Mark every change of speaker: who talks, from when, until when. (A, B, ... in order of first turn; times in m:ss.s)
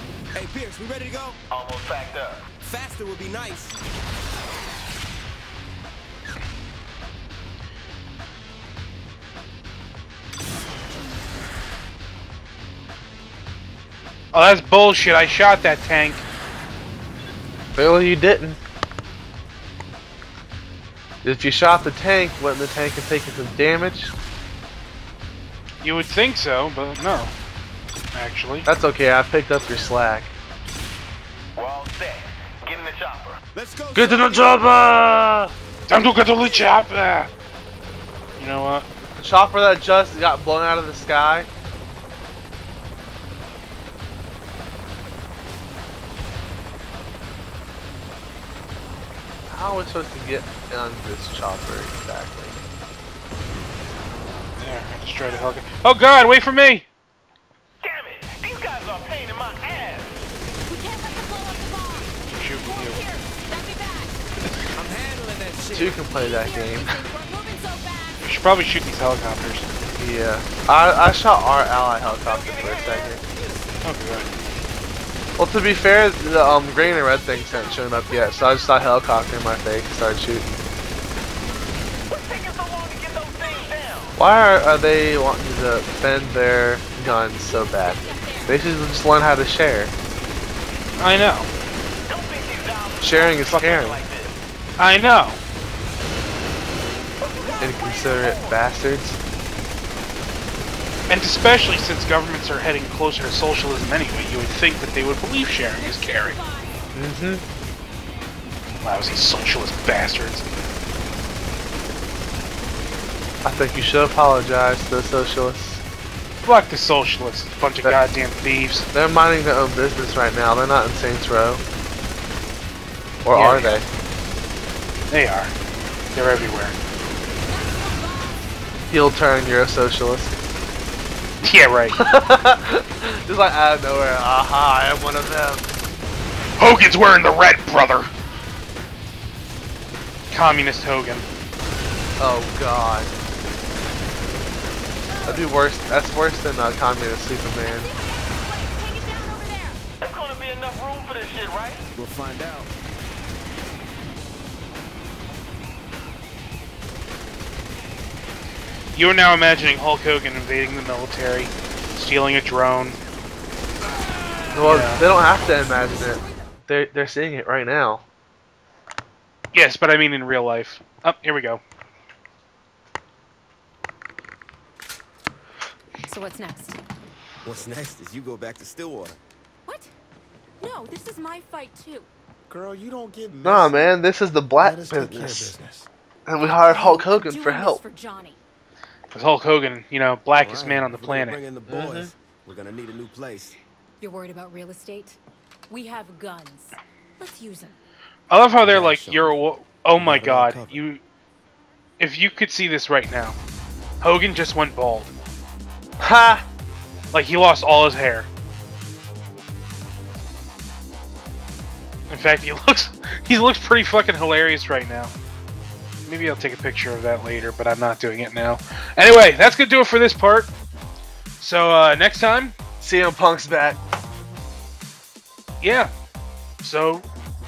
0:00.3-0:01.4 A
0:01.6-0:02.4 B
0:02.6-0:03.7 A
0:14.3-0:16.2 C
0:17.8-0:18.6 D
0:21.2-0:24.1 D
0:25.8-0:27.3 C
0:28.1-0:28.7 C
0:28.7-0:30.3 D
0:31.6-0:33.4 B
0:33.5-0:34.6 A
0:34.0-0:35.5 D
0:35.9-0:37.3 C
0:38.4-0:38.9 C
0:39.2-0:41.5 D
0:49.5-0:52.6 D
0:54.6-0:56.8 C
0:57.8-1:00.2 B
1:00.7-1:04.2 E
1:02.3-1:03.0 C
1:04.8-1:06.0 A
1:05.7-1:07.0 D
1:06.0-1:08.2 E
1:08.2-1:09.7 C
1:10.0-1:13.2 D
1:13.3-1:13.7 A
1:13.8-1:14.3 C
1:15.4-1:20.5 D
1:17.4-1:18.6 E
1:22.1-1:24.1 B
1:24.2-1:29.9 D
1:27.5-1:28.6 E
1:31.0-1:31.5 C
1:32.1-1:34.3 B
1:33.0-1:34.0 D
1:34.8-1:35.4 C
1:37.6-1:39.2 D
1:41.1-1:46.4 C
1:45.8-1:46.9 E
1:47.0-1:47.4 D
1:48.8-1:50.5 C
1:53.4-1:55.8 D
1:56.4-1:58.9 C
1:58.9-2:01.6 D
2:03.2-2:03.9 D
2:03.3-2:03.8 C
2:05.1-2:05.5 C
2:06.1-2:06.8 C
2:07.5-2:08.5 E
2:08.9-2:10.3 D
2:11.4-2:12.0 C
2:11.9-2:15.7 D
2:16.6-2:18.1 C
2:20.3-2:21.3 C
2:22.2-2:23.1 D
2:25.1-2:25.5 E
2:25.2-2:27.9 D
2:27.7-2:29.8 E
2:30.1-2:31.8 B
2:32.0-2:32.7 A
2:38.9-2:43.0 C
2:44.5-2:48.0 D
2:44.7-2:45.0 C
2:45.0-2:46.5 E
2:49.5-2:51.6 C
2:56.0-2:56.8 E
2:57.4-2:59.2 A
2:59.7-2:59.9 E
3:00.6-3:02.1 E
3:02.5-3:04.0 A
3:03.4-3:05.6 D
3:04.6-3:05.9 A
3:06.3-3:07.8 D
3:06.4-3:08.4 E
3:09.1-3:11.4 C
3:10.3-3:13.6 A
3:11.7-3:12.1 D
3:14.0-3:17.8 E
3:18.3-3:21.0 C
3:18.6-3:19.4 A
3:20.0-3:20.9 A
3:22.0-3:23.4 C
3:24.0-3:25.1 C
3:26.0-3:26.4 D
3:27.1-3:28.3 C
3:32.1-3:35.1 C
3:36.1-3:40.5 C
3:41.4-3:42.6 C
3:42.8-3:43.8 D
3:45.6-3:45.9 C
3:46.6-3:47.0 C